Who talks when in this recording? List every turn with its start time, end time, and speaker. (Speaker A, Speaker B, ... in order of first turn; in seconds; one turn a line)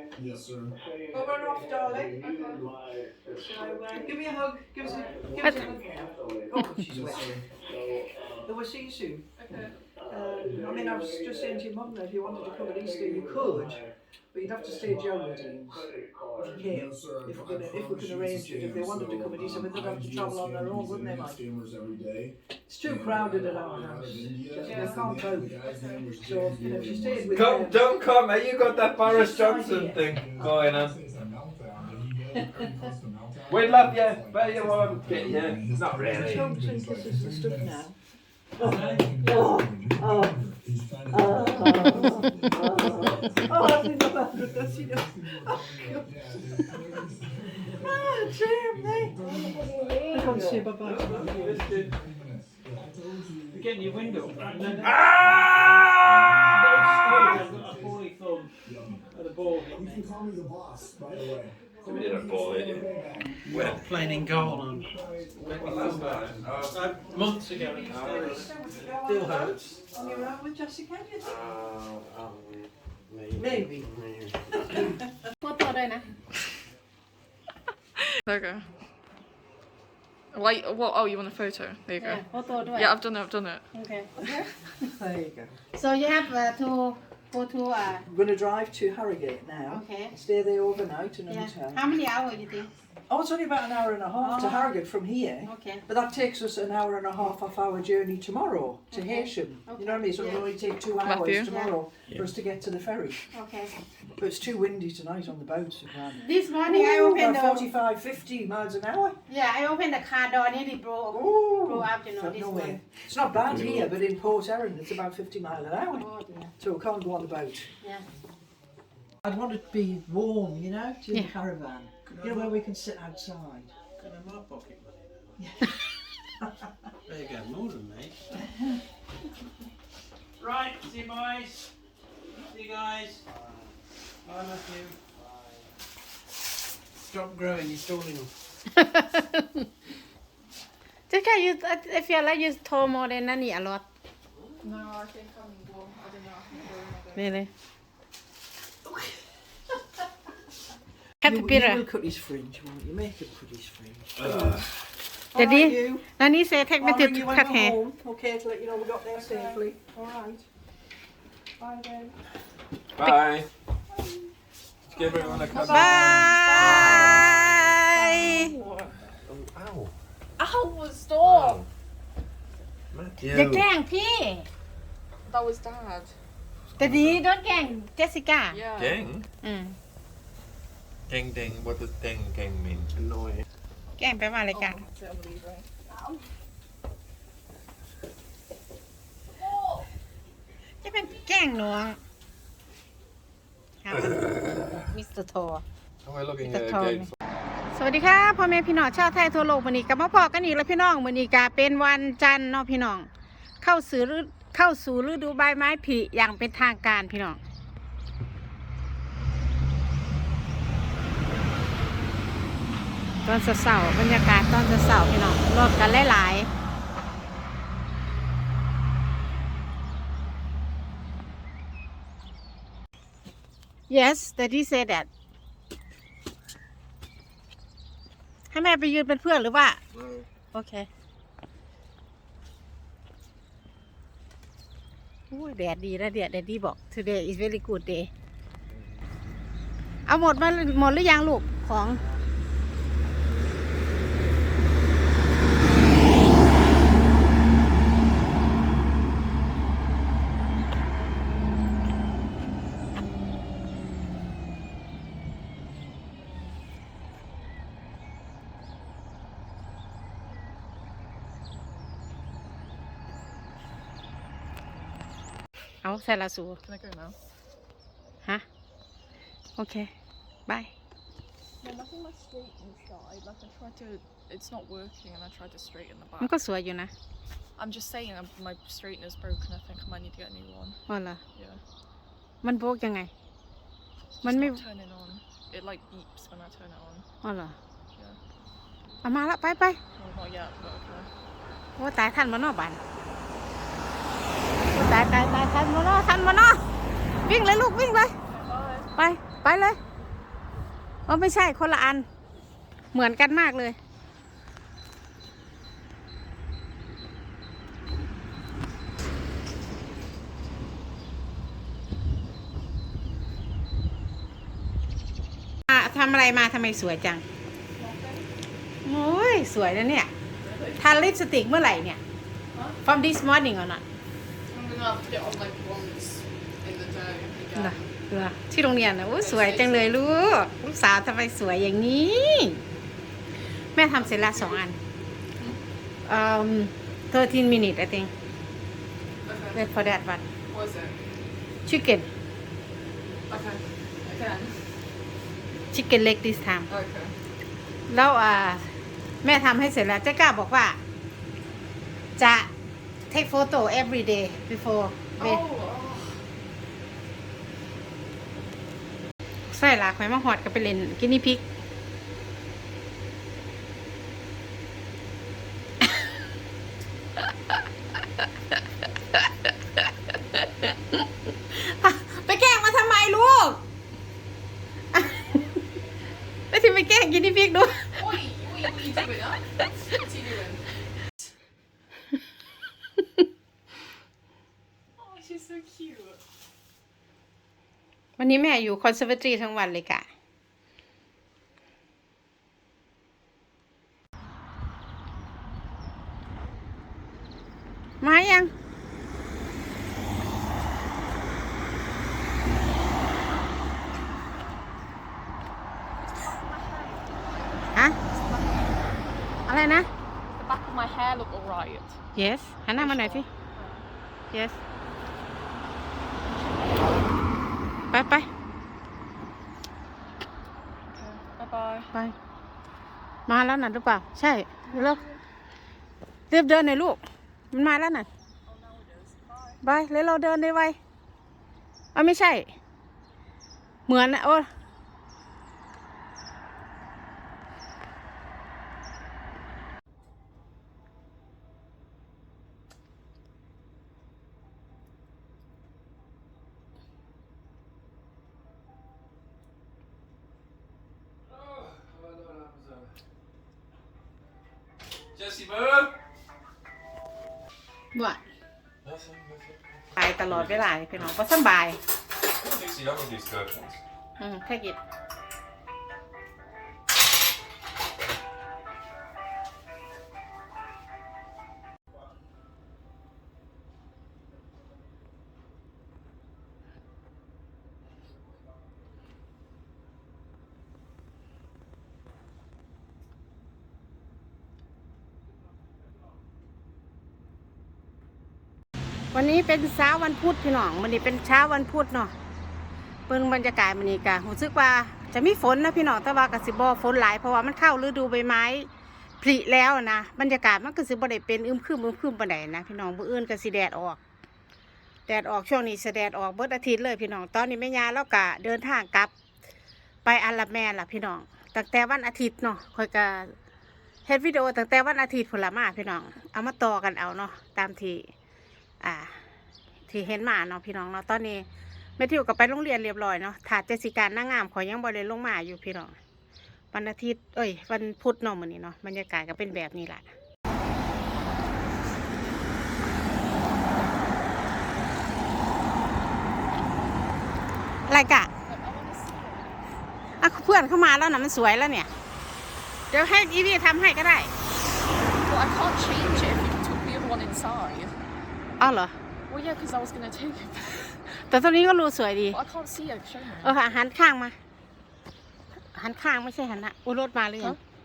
Speaker A: 0.2-0.7
Speaker B: 1.1-2.2
Speaker C: 2.2-2.7
Speaker B: 3.3-7.4
Speaker C: 4.8-5.2
Speaker A: 6.9-7.3
Speaker B: 8.4-9.3
Speaker C: 9.4-9.8
Speaker B: 10.1-21.4
Speaker A: 16.7-27.4
Speaker B: 22.7-25.6
Speaker C: 24.6-26.1
Speaker B: 26.2-28.1
Speaker D: 27.4-31.0
Speaker A: 29.0-29.3
Speaker B: 29.1-30.0
Speaker A: 30.2-37.8
Speaker D: 33.5-36.5
Speaker B: 36.1-38.0
Speaker B: 38.6-40.5
Speaker E: 38.6-39.1
Speaker A: 38.7-43.7
Speaker B: 41.1-47.1
Speaker A: 44.4-50.1
Speaker B: 47.8-49.2
Speaker B: 50.1-51.4
Speaker E: 50.8-52.0
Speaker A: 50.9-58.0
Speaker E: 53.5-55.5
Speaker B: 54.3-55.0
Speaker D: 54.8-56.3
Speaker E: 56.5-58.5
Speaker A: 58.6-66.4
Speaker E: 59.1-60.1
Speaker D: 61.8-62.9
Speaker D: 63.5-63.9
Speaker E: 63.5-69.8
Speaker D: 65.5-67.1
Speaker A: 67.0-67.4
Speaker B: 67.5-71.4
Speaker D: 67.9-68.5
Speaker E: 71.4-72.6
Speaker E: 73.1-74.8
Speaker B: 73.3-73.9
Speaker B: 74.6-75.0
Speaker F: 75.4-76.1
Speaker C: 78.2-78.7
Speaker C: 80.3-82.2
Speaker F: 82.0-83.0
Speaker C: 82.8-83.7
Speaker F: 83.7-84.1
Speaker B: 84.2-85.6
Speaker F: 85.7-88.0
Speaker B: 88.1-91.8
Speaker F: 89.7-90.1
Speaker F: 91.3-92.7
Speaker B: 93.1-103.2
Speaker F: 94.2-94.7
Speaker F: 95.5-95.8
Speaker F: 98.9-100.5
Speaker C: 101.0-101.5
Speaker F: 101.5-101.7
Speaker F: 103.3-103.8
Speaker B: 104.2-109.2
Speaker F: 106.2-107.7
Speaker F: 109.3-112.8
Speaker B: 111.1-117.7
Speaker F: 115.9-116.5
Speaker F: 117.8-118.1
Speaker B: 119.2-123.7
Speaker E: 122.1-122.5
Speaker E: 124.0-125.3
Speaker B: 125.4-125.8
Speaker B: 126.4-126.7
Speaker E: 127.1-128.2
Speaker E: 130.4-131.7
Speaker E: 132.4-133.4
Speaker E: 134.2-135.0
Speaker E: 137.1-138.3
Speaker F: 138.8-139.4
Speaker F: 141.1-143.9
Speaker C: 144.6-147.5
Speaker F: 147.2-147.5
Speaker F: 151.2-151.8
Speaker B: 151.2-154.7
Speaker D: 154.2-154.7
Speaker B: 155.3-156.1
Speaker F: 155.3-157.8
Speaker B: 156.8-160.5
Speaker C: 159.2-159.6
Speaker B: 161.6-162.1
Speaker D: 163.0-163.5
Speaker D: 164.9-167.6
Speaker C: 164.9-167.3
Speaker B: 165.3-165.9
Speaker F: 165.7-168.5
Speaker C: 167.9-169.0
Speaker D: 169.2-169.9
Speaker C: 170.4-171.7
Speaker D: 171.2-171.7
Speaker D: 172.9-173.7
Speaker F: 173.3-174.5
Speaker C: 175.3-176.2
Speaker F: 176.8-178.7
Speaker D: 176.8-177.2
Speaker C: 178.5-179.1
Speaker D: 178.8-179.2
Speaker F: 179.4-179.8
Speaker D: 181.1-182.9
Speaker E: 183.0-183.4
Speaker F: 184.0-184.8
Speaker C: 184.5-185.7
Speaker C: 189.4-189.8
Speaker F: 190.8-192.0
Speaker F: 193.8-194.2
Speaker F: 194.8-195.6
Speaker D: 196.0-197.1
Speaker F: 196.4-197.1
Speaker F: 197.7-203.1
Speaker F: 203.6-207.4
Speaker F: 213.2-216.5
Speaker F: 223.9-225.1
Speaker F: 228.5-229.8
Speaker F: 230.5-230.9
Speaker F: 235.3-238.1
Speaker F: 240.1-242.0
Speaker F: 265.8-266.6
Speaker C: 266.6-267.2
Speaker F: 269.6-269.9
Speaker F: 270.5-270.7
Speaker C: 271.6-276.3
Speaker F: 276.2-276.9
Speaker C: 277.6-280.8
Speaker F: 280.9-281.2
Speaker C: 281.4-281.6
Speaker F: 282.4-283.1
Speaker C: 284.2-287.1
Speaker F: 284.2-284.6
Speaker F: 287.2-287.6
Speaker F: 289.0-289.8
Speaker C: 290.0-291.1
Speaker F: 291.8-292.8
Speaker F: 294.7-296.6
Speaker F: 297.2-298.1
Speaker C: 298.3-298.9
Speaker F: 299.0-299.8
Speaker F: 301.1-302.1
Speaker F: 302.9-303.8
Speaker F: 315.7-317.2
Speaker C: 317.8-318.3
Speaker F: 318.8-320.1
Speaker C: 320.4-320.8
Speaker F: 320.8-322.0
Speaker F: 322.8-323.8
Speaker C: 324.5-327.8
Speaker F: 327.6-332.6
Speaker C: 329.1-330.0
Speaker F: 333.8-334.8
Speaker C: 334.0-334.6
Speaker F: 336.1-338.1
Speaker C: 339.3-339.6
Speaker F: 339.5-340.2
Speaker C: 340.5-341.0
Speaker F: 341.6-342.1
Speaker C: 343.3-344.6
Speaker F: 345.7-346.7
Speaker C: 346.7-347.1
Speaker F: 347.9-350.8
Speaker F: 352.2-352.5
Speaker F: 353.1-355.4
Speaker C: 355.2-356.3
Speaker F: 359.5-361.4
Speaker F: 371.5-373.6
Speaker F: 374.9-375.4
Speaker F: 376.5-378.0
Speaker C: 377.9-380.7
Speaker C: 385.0-386.2
Speaker F: 388.2-390.1
Speaker F: 398.0-398.5
Speaker C: 406.2-408.9
Speaker F: 409.5-409.9
Speaker C: 410.3-412.0
Speaker F: 412.1-413.3
Speaker C: 412.8-413.8
Speaker F: 414.3-414.6
Speaker F: 417.9-418.3
Speaker C: 420.9-421.9
Speaker F: 423.3-425.0
Speaker C: 424.7-425.2
Speaker F: 426.3-427.0
Speaker F: 427.5-428.1
Speaker C: 428.5-429.6
Speaker F: 429.6-430.8
Speaker F: 431.9-432.5
Speaker F: 433.9-434.5
Speaker D: 451.4-452.6
Speaker D: 455.2-455.9
Speaker F: 457.9-458.2
Speaker D: 458.8-461.1
Speaker F: 460.0-461.8
Speaker D: 462.4-463.8
Speaker F: 464.2-464.8
Speaker F: 489.1-492.1
Speaker F: 493.1-498.7
Speaker F: 499.2-504.0
Speaker F: 505.1-509.1
Speaker F: 510.1-513.4
Speaker F: 514.1-518.1
Speaker F: 518.8-519.2
Speaker F: 519.9-521.5
Speaker F: 522.0-526.0
Speaker F: 526.7-530.1
Speaker F: 537.9-538.3
Speaker C: 538.5-539.7
Speaker F: 540.2-541.9
Speaker F: 542.9-544.3
Speaker C: 545.2-548.0
Speaker F: 548.6-549.0
Speaker C: 549.3-551.0
Speaker F: 551.1-552.4
Speaker C: 552.3-553.5
Speaker F: 553.4-554.4
Speaker F: 555.7-557.6